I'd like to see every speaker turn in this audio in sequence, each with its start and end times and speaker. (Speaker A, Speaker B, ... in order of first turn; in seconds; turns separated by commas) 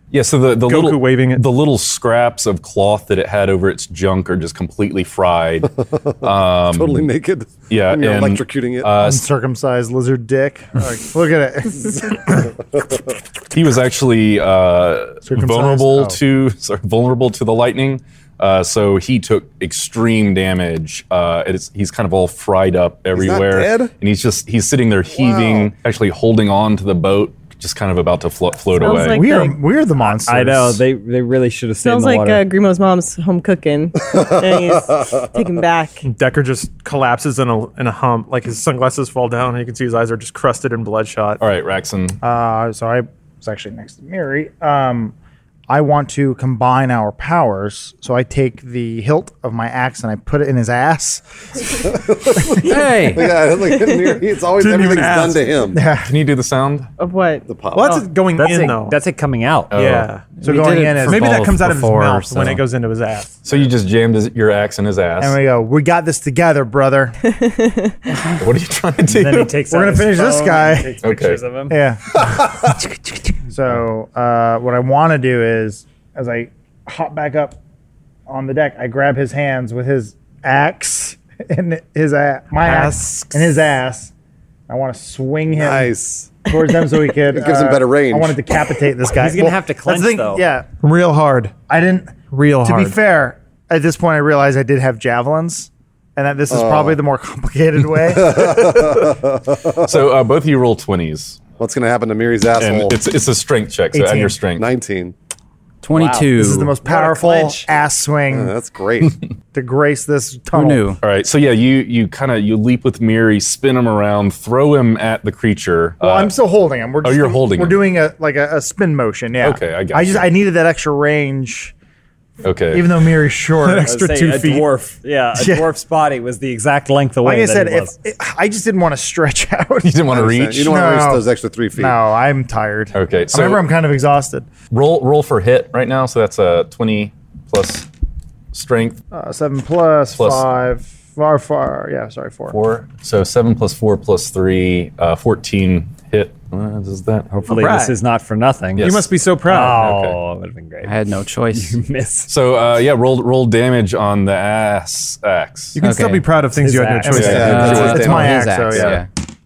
Speaker A: 0.1-7.1, Speaker B: 0.6-1.5, Speaker C: 6.2-8.9, Speaker A: 7.7-9.3, Speaker D: 9.0-12.5, Speaker A: 13.5-29.2, Speaker D: 15.3-16.2, Speaker C: 23.1-23.9, Speaker C: 25.2-25.7, Speaker E: 28.8-29.6, Speaker D: 28.9-30.8, Speaker F: 30.1-32.4, Speaker E: 31.8-36.0, Speaker B: 36.0-41.4, Speaker A: 41.4-42.2, Speaker D: 42.2-45.1, Speaker D: 45.7-51.6, Speaker C: 51.9-55.8, Speaker G: 52.7-53.2, Speaker E: 53.6-54.1, Speaker B: 54.5-55.5, Speaker D: 55.7-56.1, Speaker A: 56.0-56.9, Speaker E: 57.0-58.1, Speaker C: 57.5-58.0, Speaker B: 57.7-59.0, Speaker F: 58.4-59.8, Speaker A: 59.7-60.1, Speaker B: 59.7-60.3, Speaker G: 60.4-62.6, Speaker D: 60.4-61.4, Speaker B: 61.0-63.5, Speaker A: 63.4-65.4, Speaker D: 65.2-67.2, Speaker E: 67.2-68.0, Speaker A: 68.4-69.5, Speaker F: 69.1-71.8, Speaker D: 69.7-71.0, Speaker A: 71.0-71.4, Speaker D: 71.7-72.2, Speaker A: 72.2-72.5, Speaker D: 73.5-77.6, Speaker D: 78.3-84.1, Speaker B: 82.6-83.6, Speaker D: 84.7-85.9, Speaker C: 85.6-86.4, Speaker D: 86.5-90.7, Speaker C: 87.3-88.4, Speaker F: 89.1-90.4, Speaker B: 90.8-91.5, Speaker D: 91.7-98.7, Speaker B: 92.3-93.0, Speaker C: 96.5-97.0, Speaker C: 98.1-99.9, Speaker A: 99.8-101.4, Speaker C: 101.6-103.0, Speaker A: 102.6-104.7, Speaker D: 103.9-104.4, Speaker C: 104.6-105.2, Speaker G: 105.8-106.8, Speaker F: 105.9-107.7, Speaker D: 106.4-108.5, Speaker C: 108.3-109.2, Speaker D: 109.5-110.8, Speaker G: 110.5-111.0, Speaker A: 111.0-116.3, Speaker D: 116.0-121.7, Speaker A: 117.0-117.8, Speaker A: 119.4-120.3, Speaker A: 122.4-122.9, Speaker D: 122.7-123.9, Speaker B: 123.5-124.7, Speaker F: 123.8-127.9, Speaker D: 125.3-125.7, Speaker D: 127.2-130.1, Speaker A: 129.8-130.7, Speaker C: 130.1-132.0, Speaker D: 130.6-134.5, Speaker A: 132.9-133.7, Speaker A: 134.7-137.9, Speaker A: 138.5-139.0, Speaker D: 139.1-142.6, Speaker A: 140.2-140.4, Speaker A: 142.5-147.3, Speaker F: 147.3-151.0, Speaker B: 147.5-148.0, Speaker A: 148.8-149.1, Speaker B: 148.8-150.0, Speaker G: 150.8-151.8, Speaker F: 151.5-152.3, Speaker A: 152.3-155.8, Speaker B: 155.8-157.9, Speaker G: 155.8-156.3, Speaker D: 157.0-159.0, Speaker A: 157.1-158.1, Speaker C: 157.1-158.5, Speaker G: 157.4-159.1, Speaker A: 158.7-159.0